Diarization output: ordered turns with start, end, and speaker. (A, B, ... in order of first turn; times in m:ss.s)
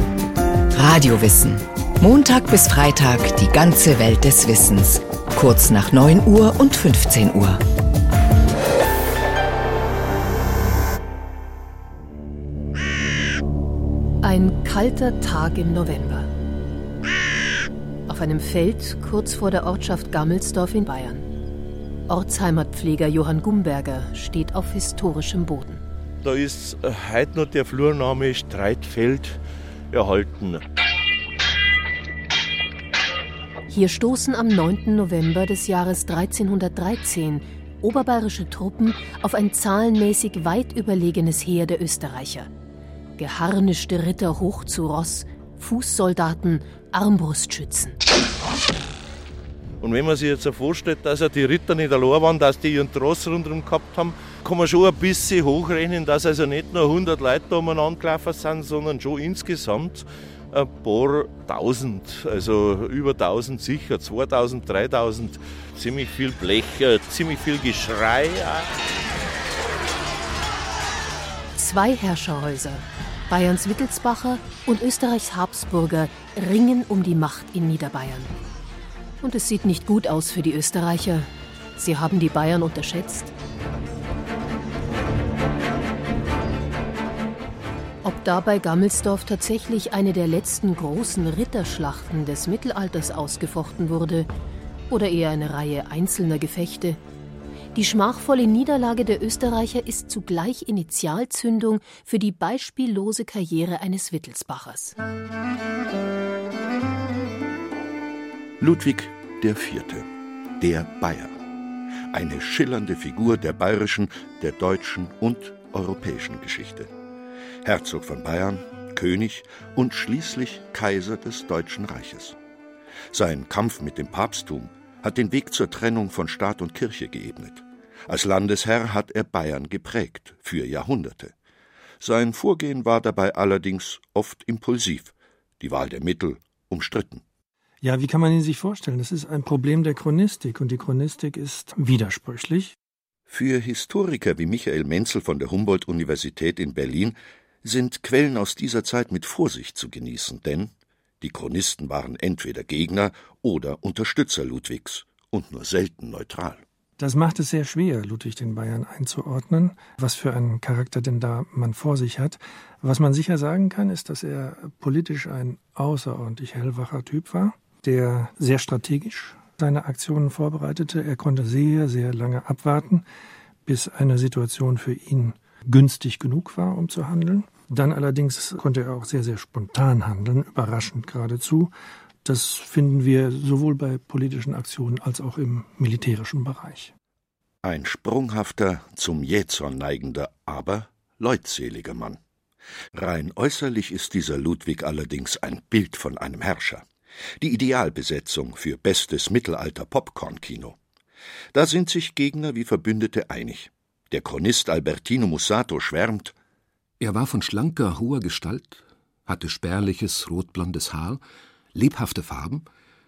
0:00.7-0:07.6 A
0:14.2-0:16.3 B
0:18.1-0:21.3 B
0:22.1-0:25.8 B
0:26.2-0:30.6 C
0:33.7-0:42.5 B
0:43.2-0:48.0 B
0:49.8-1:08.8 C
1:11.6-1:18.3 B
1:19.2-1:23.3 B
1:28.0-1:34.3 B
1:34.9-1:37.0 B
1:37.7-1:45.0 B
1:48.6-1:50.1 D
1:50.6-1:51.4 D
1:52.1-1:56.9 D
1:57.6-2:02.4 D
2:03.1-2:11.3 D
2:12.0-2:17.2 D
2:17.8-2:22.8 E
2:23.3-2:36.6 D
2:37.0-2:53.0 E
2:53.7-3:01.7 E
3:02.2-3:06.9 E
3:07.6-3:12.2 D
3:12.9-3:16.9 D
3:17.4-3:20.8 D
3:21.5-3:26.3 D
3:27.0-3:31.2 F
3:31.7-3:32.7 F